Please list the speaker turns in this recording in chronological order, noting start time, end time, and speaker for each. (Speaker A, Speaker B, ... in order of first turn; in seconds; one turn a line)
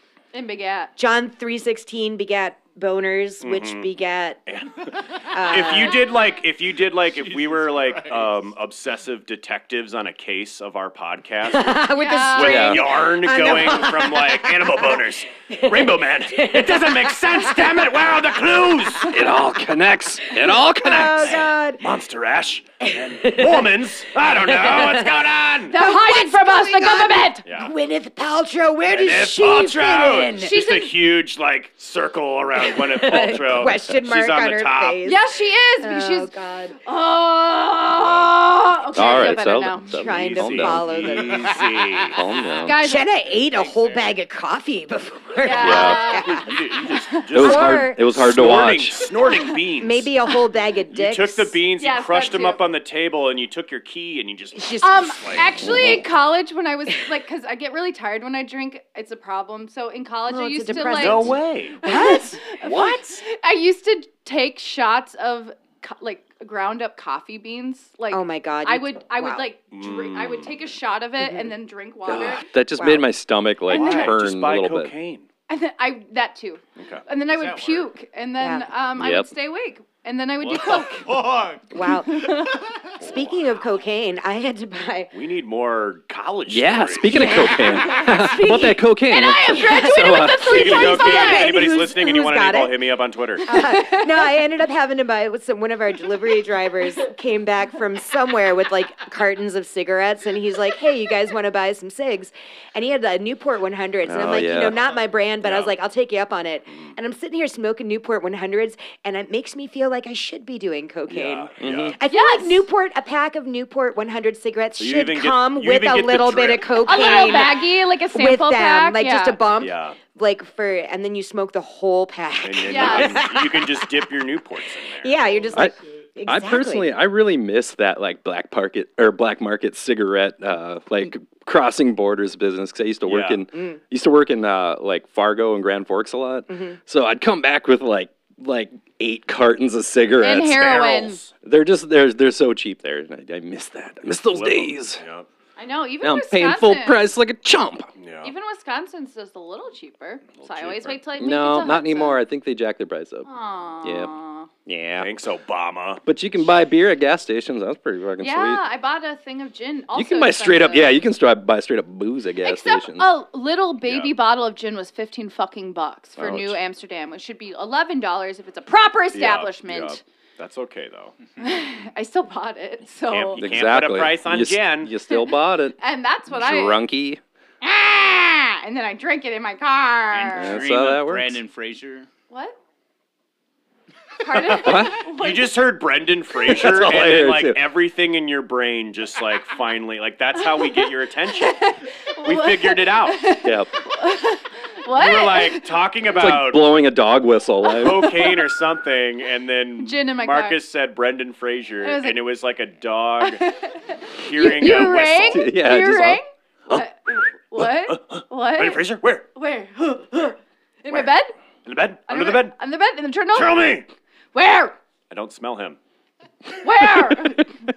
Speaker A: 0.3-0.9
Speaker B: 1.0-4.4
Speaker C: 3.4-3.9
Speaker C: 4.5-4.9
Speaker B: 5.3-6.1
Speaker C: 5.5-19.1
Speaker D: 7.3-8.2
Speaker B: 11.5-17.9
Speaker A: 12.0-12.8
Speaker E: 12.4-12.8
Speaker E: 19.0-21.5
Speaker B: 20.7-21.8
Speaker C: 21.0-25.7
Speaker B: 22.9-23.7
Speaker B: 24.4-30.5
Speaker A: 25.7-27.4
Speaker C: 27.4-27.7
Speaker C: 28.9-35.0
Speaker A: 30.4-30.9
Speaker B: 32.6-35.2
Speaker A: 35.0-36.3
Speaker B: 35.8-36.8
Speaker A: 36.8-39.9
Speaker E: 38.9-41.1
Speaker B: 39.9-41.6
Speaker C: 40.0-42.2
Speaker E: 42.1-42.8
Speaker A: 42.6-43.1
Speaker B: 42.7-46.6
Speaker D: 43.4-44.0
Speaker A: 45.4-47.2
Speaker E: 45.5-46.2
Speaker C: 46.2-50.1
Speaker E: 47.3-49.0
Speaker B: 47.3-48.1
Speaker B: 49.8-51.5
Speaker C: 50.9-55.4
Speaker A: 51.8-52.6
Speaker B: 54.5-55.5
Speaker A: 54.8-72.5
Speaker E: 55.6-56.0
Speaker B: 60.3-63.2
Speaker C: 60.9-61.8
Speaker B: 68.1-69.4
Speaker C: 69.7-70.6
Speaker B: 71.2-71.5
Speaker E: 72.1-74.9
Speaker B: 72.7-73.1
Speaker C: 73.7-75.3
Speaker A: 73.7-74.1
Speaker A: 75.5-81.1
Speaker C: 76.8-77.0
Speaker D: 77.3-77.9
Speaker B: 78.4-78.7
Speaker E: 79.0-79.3
Speaker D: 80.4-81.7
Speaker B: 81.7-82.5
Speaker A: 81.8-82.6
Speaker C: 83.0-83.6
Speaker B: 83.0-85.1
Speaker C: 85.1-87.1
Speaker E: 86.5-90.5
Speaker B: 87.1-88.8
Speaker A: 87.3-88.3
Speaker A: 89.1-91.7
Speaker B: 89.5-92.7
Speaker C: 90.5-93.4
Speaker B: 93.4-124.0
Speaker A: 93.5-94.3
Speaker E: 104.0-104.8
Speaker C: 105.4-105.7
Speaker C: 111.1-111.9
Speaker E: 111.6-111.9
Speaker A: 112.1-112.7
Speaker C: 114.8-117.5
Speaker A: 116.8-119.4
Speaker C: 119.6-120.0
Speaker C: 122.4-125.2
Speaker A: 122.6-123.3
Speaker B: 125.0-126.9
Speaker E: 126.2-140.7
Speaker C: 133.1-133.4
Speaker B: 133.5-133.8
Speaker B: 136.5-136.8
Speaker A: 140.2-141.2
Speaker C: 140.4-141.3
Speaker E: 141.4-145.0
Speaker C: 144.2-145.3
Speaker A: 145.6-147.0
Speaker E: 146.0-147.9
Speaker C: 148.0-148.3
Speaker A: 148.2-152.2
Speaker C: 150.4-151.0
Speaker E: 151.2-153.2
Speaker A: 153.2-154.5
Speaker E: 153.8-154.1
Speaker E: 154.7-155.1
Speaker C: 155.0-156.0
Speaker E: 156.0-158.6
Speaker A: 158.2-161.0
Speaker E: 159.9-163.1
Speaker A: 162.4-170.0
Speaker C: 163.8-164.1
Speaker E: 166.2-166.6
Speaker C: 169.1-171.1
Speaker A: 171.4-173.4
Speaker C: 173.1-174.9
Speaker E: 173.4-177.2
Speaker A: 175.1-176.8
Speaker A: 177.6-180.6
Speaker D: 180.1-182.1
Speaker E: 180.3-181.4
Speaker A: 182.3-182.6
Speaker A: 184.2-185.6
Speaker C: 184.3-191.7
Speaker E: 184.6-185.0
Speaker E: 186.4-187.6
Speaker A: 190.4-195.7
Speaker C: 192.2-193.3
Speaker E: 193.4-193.7
Speaker C: 194.9-196.7
Speaker E: 196.1-198.2
Speaker C: 197.8-203.4
Speaker A: 199.8-200.6
Speaker A: 201.8-202.2
Speaker A: 203.2-211.3
Speaker C: 204.1-205.5
Speaker E: 204.9-206.8
Speaker C: 207.9-209.2
Speaker C: 211.6-212.5
Speaker A: 212.1-213.7
Speaker C: 213.3-213.9
Speaker A: 214.3-214.8
Speaker C: 215.1-215.8
Speaker A: 216.6-217.6